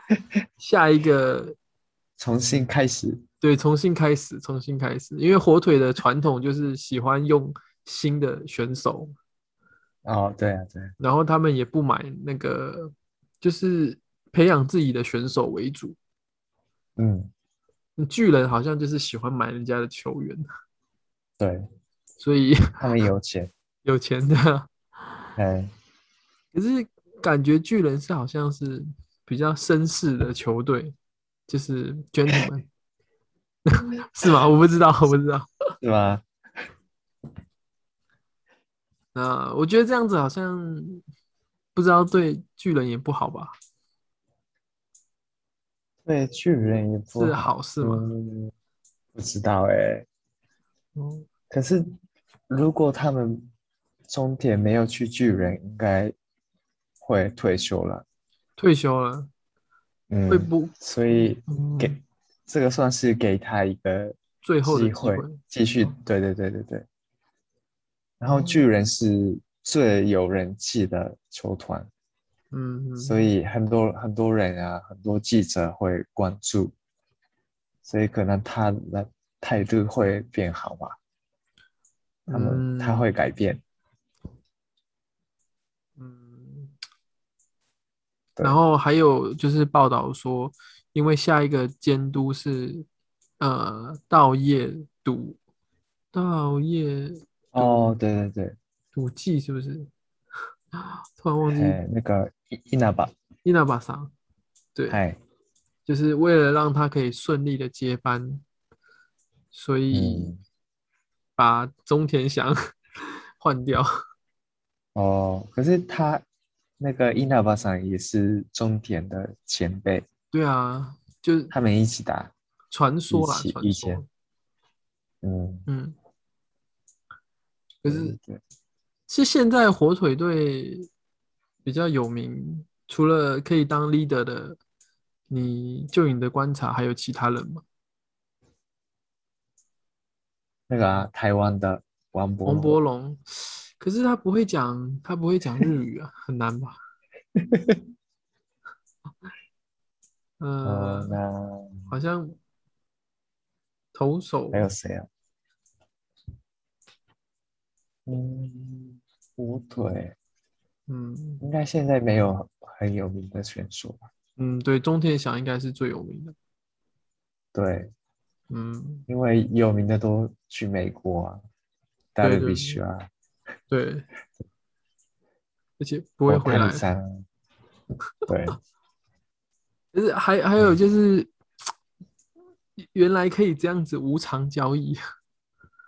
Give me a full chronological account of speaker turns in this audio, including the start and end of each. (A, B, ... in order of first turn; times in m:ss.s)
0:00.6-0:01.6 A
0:02.2-0:03.2 B
0:03.4-0:09.1 A
0:10.0-0:10.9 B
0:11.0-0:16.0 A
0:17.0-0:17.3 B
0:18.0-0:20.4 A
0:21.4-0:21.7 B
0:22.2-0:22.7 A
0:22.8-0:23.5 B
0:23.8-0:24.7 A
0:25.4-0:25.7 B
0:26.5-0:30.9 A
0:31.5-0:32.7 A
0:33.7-0:35.7 A
0:35.8-0:36.2 B
0:39.1-0:41.0 A
0:41.7-0:43.5 A
0:46.0-0:48.5 B
0:47.2-0:48.0 A
0:49.1-0:50.1 B
0:51.0-0:51.2 A
0:51.5-0:51.9 B
0:52.5-0:53.5 B
0:54.1-0:56.1 B
0:57.0-0:58.0 B
0:58.6-0:59.3 A
1:00.1-1:06.9 B
1:00.3-1:02.0 A
1:04.4-1:05.9 A
1:08.2-1:11.9 B
1:08.3-1:08.7 A
1:12.5-1:13.3 A
1:13.0-1:16.7 B
1:17.8-1:21.0 B
1:22.3-1:23.1 A
1:22.3-1:23.6 B
1:26.0-1:26.7 A
1:28.4-1:32.8 A
1:33.4-1:35.4 A
1:36.1-1:37.9 A
1:37.5-1:38.6 B
1:38.9-1:39.9 A
1:40.8-1:41.8 A
1:41.5-1:43.1 B
1:43.4-1:44.1 A
1:44.9-1:45.2 B
1:45.8-1:48.4 A
1:49.5-1:50.3 A
1:49.9-1:50.4 B
1:51.4-1:52.6 A
1:53.4-1:53.9 A
1:54.9-1:56.2 B
1:56.8-2:00.0 B
2:00.3-2:01.5 A
2:01.5-2:02.3 B
2:02.7-2:04.0 A
2:03.1-2:04.0 B
2:05.2-2:05.7 B
2:05.7-2:06.0 A
2:07.8-2:08.2 A
2:07.8-2:08.4 B
2:09.1-2:10.9 A
2:11.6-2:14.6 A
2:15.3-2:17.6 A
2:20.7-2:22.8 B
2:22.4-2:26.8 A
2:27.4-2:27.8 B
2:30.4-2:31.2 A
2:30.6-2:31.9 B
2:31.9-2:32.4 A
2:33.9-2:34.7 A
2:34.5-2:35.1 B
2:38.0-2:40.2 B
2:40.9-2:41.4 A
2:41.4-2:44.0 B
2:44.4-2:46.3 A
2:47.5-2:47.9 B
2:48.5-2:49.0 A
2:49.1-2:51.4 B
2:52.1-2:53.1 B
2:52.2-2:52.8 A
2:53.7-2:54.1 A
2:55.8-2:56.8 A
2:56.3-2:57.2 B
2:58.3-2:58.6 B
2:59.9-3:01.3 A
3:02.8-3:05.0 A